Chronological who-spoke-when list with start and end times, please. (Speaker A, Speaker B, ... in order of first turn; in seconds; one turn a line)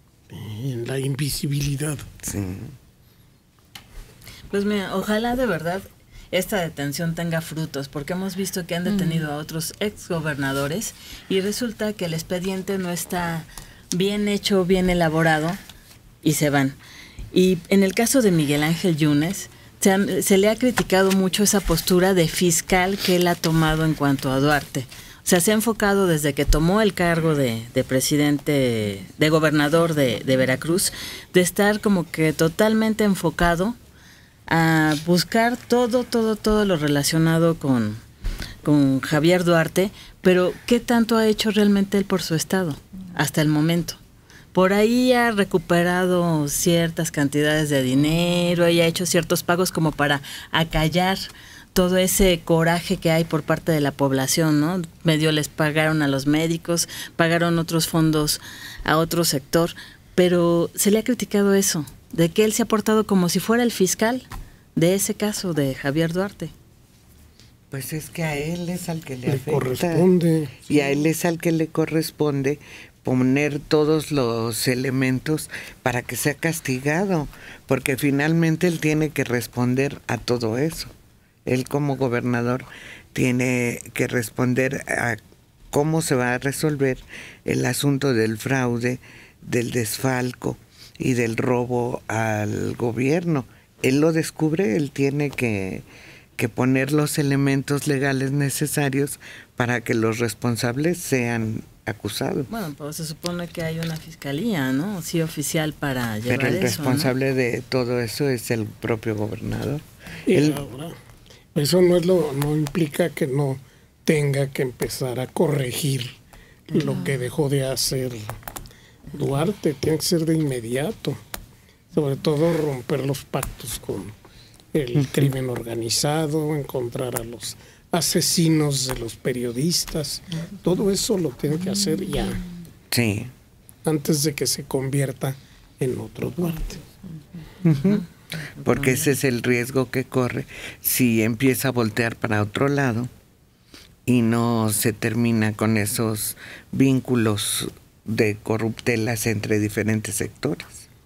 Speaker A: 0.6-2.0
Speaker B: 2.2-2.7
Speaker C: 4.5-15.6
Speaker C: 16.2-16.8
Speaker C: 17.3-33.8
Speaker C: 34.5-38.0
Speaker C: 38.6-44.0
Speaker C: 44.5-66.5
Speaker B: 67.7-70.1
Speaker A: 69.3-70.5
Speaker B: 70.7-80.9
Speaker B: 81.5-85.2
Speaker B: 85.7-95.8
Speaker B: 96.4-102.5
Speaker C: 102.5-107.1
Speaker B: 106.2-110.6
Speaker A: 110.3-111.0
Speaker A: 111.5-116.2
Speaker A: 116.7-118.2
Speaker A: 119.1-121.2
Speaker A: 121.9-124.1
Speaker A: 124.7-132.4
Speaker B: 132.9-133.3
Speaker A: 133.8-136.8
Speaker B: 137.6-138.0
Speaker B: 138.6-143.1
Speaker B: 144.1-150.8